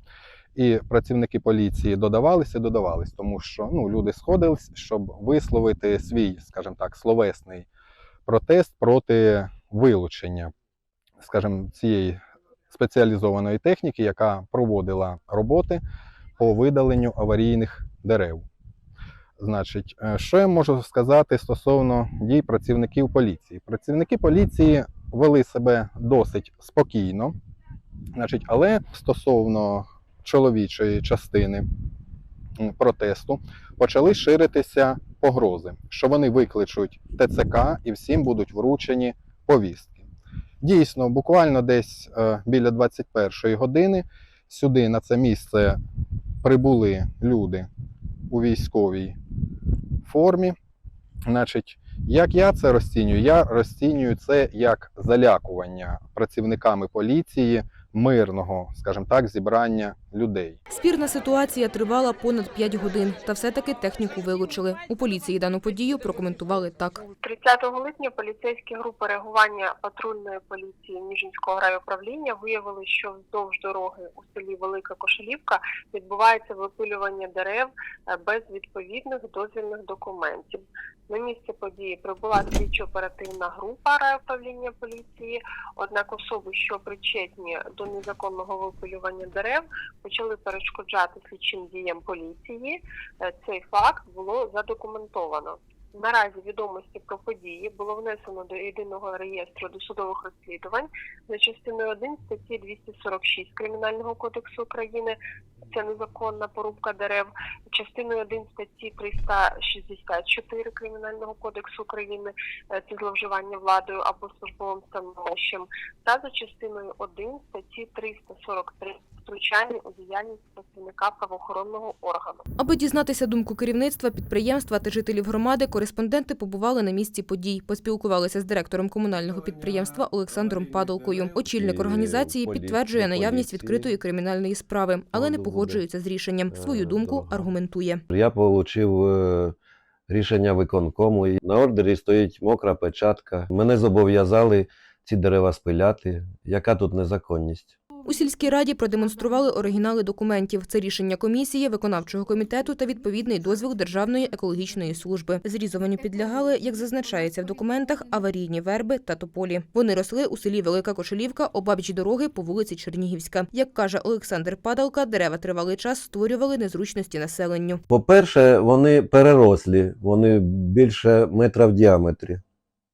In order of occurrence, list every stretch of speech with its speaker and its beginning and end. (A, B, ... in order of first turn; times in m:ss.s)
0:00.5-0:07.6 A
0:08.2-0:10.5 A
0:11.2-0:12.2 A
0:12.7-0:15.8 A
0:16.4-0:18.4 A
0:19.4-0:27.3 A
0:28.1-0:31.6 A
0:32.6-0:40.0 A
0:40.6-0:45.8 A
0:46.4-0:47.7 A
0:48.3-0:49.2 A
0:50.0-0:50.6 A
0:51.3-1:00.6 A
1:00.7-1:07.0 B
1:07.2-1:45.2 C
1:45.7-2:02.4 C
2:02.6-2:18.0 B
2:11.5-2:13.9 D
2:15.1-2:15.8 D
2:16.5-2:17.5 D
2:18.1-2:19.5 D
2:20.1-2:27.7 D
2:28.0-2:47.8 B
2:47.9-2:52.4 D